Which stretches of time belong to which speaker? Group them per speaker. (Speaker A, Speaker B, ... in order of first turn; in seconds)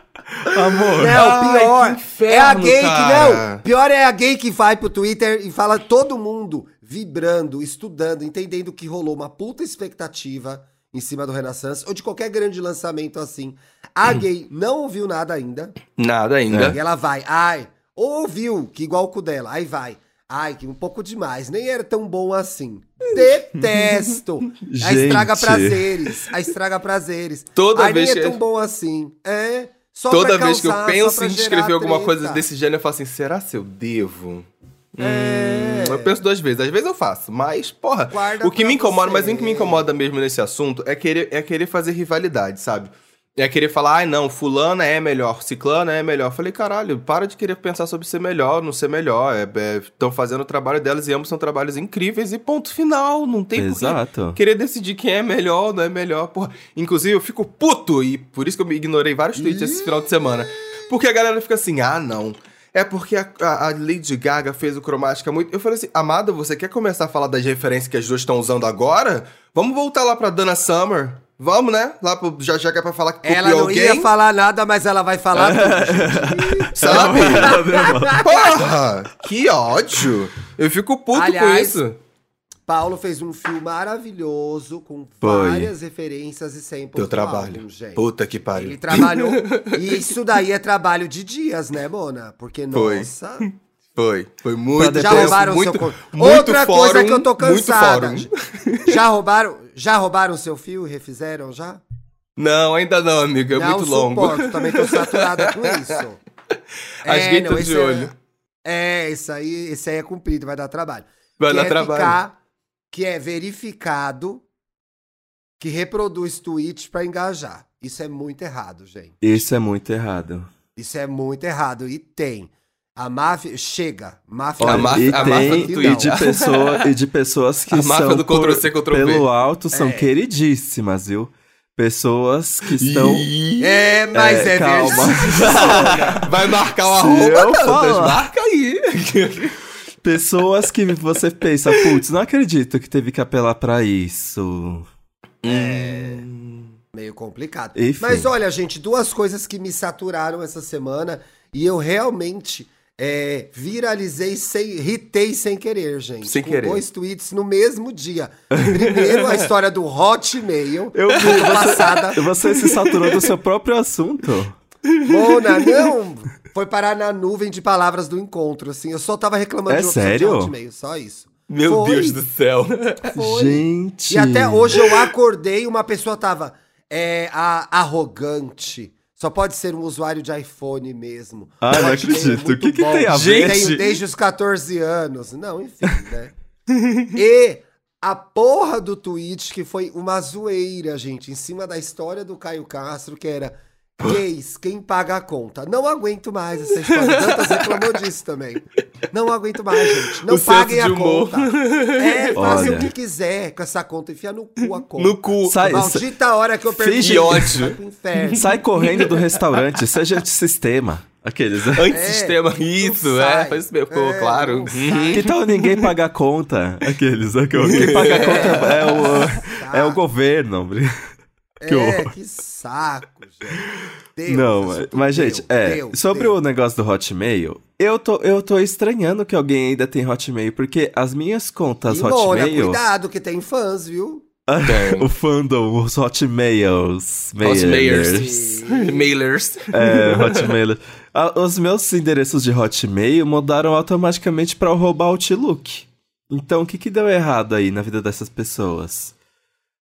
Speaker A: 0.5-1.3, 16.5-16.8, 24.6-26.0, 53.5-54.4, 75.3-78.5, 85.2-85.7, 94.8-95.4, 119.2-120.5, 124.6-133.3, 134.1-136.3, 136.8-138.2, 140.0-144.9, 147.8-148.3, 158.5-158.8, 160.9-164.6, 169.7-170.5, 173.1-174.8, 181.6-183.8, 202.3-202.9, 205.4-206.0, 206.7-207.6, 208.3-211.9, 215.1-220.9, 221.7-222.1, 224.3-232.8, 234.5-238.4, 239.7-249.1
Speaker B: 0.6-3.6, 15.9-16.8, 27.6-28.4, 30.1-74.1, 76.8-77.6, 78.2-82.0, 87.0-90.0, 92.7-99.0, 102.4-106.0, 107.0-108.1, 111.4-112.2, 124.6-126.9, 127.7-129.2, 132.8-133.9, 134.9-139.6, 141.7-142.0, 145.4-146.7, 156.2-156.8, 161.2-161.8, 162.5-163.3, 164.9-165.9, 171.5-173.1, 183.1-184.0, 186.8-187.1, 196.7-198.0, 200.0-202.9, 204.9-205.9, 207.0-209.4, 211.7-215.9, 217.6-219.3, 234.6-235.1, 237.4-240.5
Speaker C: 0.9-15.8, 16.6-32.4, 35.0-36.2, 38.1-39.9, 59.4-60.3, 73.2-78.5, 81.1-81.8, 82.7-93.5, 94.9-98.3, 98.8-101.8, 103.5-106.2, 107.0-108.1, 108.6-112.3, 112.9-114.4, 115.6-119.5, 120.8-126.2, 129.7-130.1, 133.6-136.3, 145.4-146.2, 146.9-162.2, 165.0-172.2, 173.1-186.3, 187.1-208.6, 211.9-215.2, 218.0-220.0, 221.6-226.4, 231.9-234.3, 238.0-239.1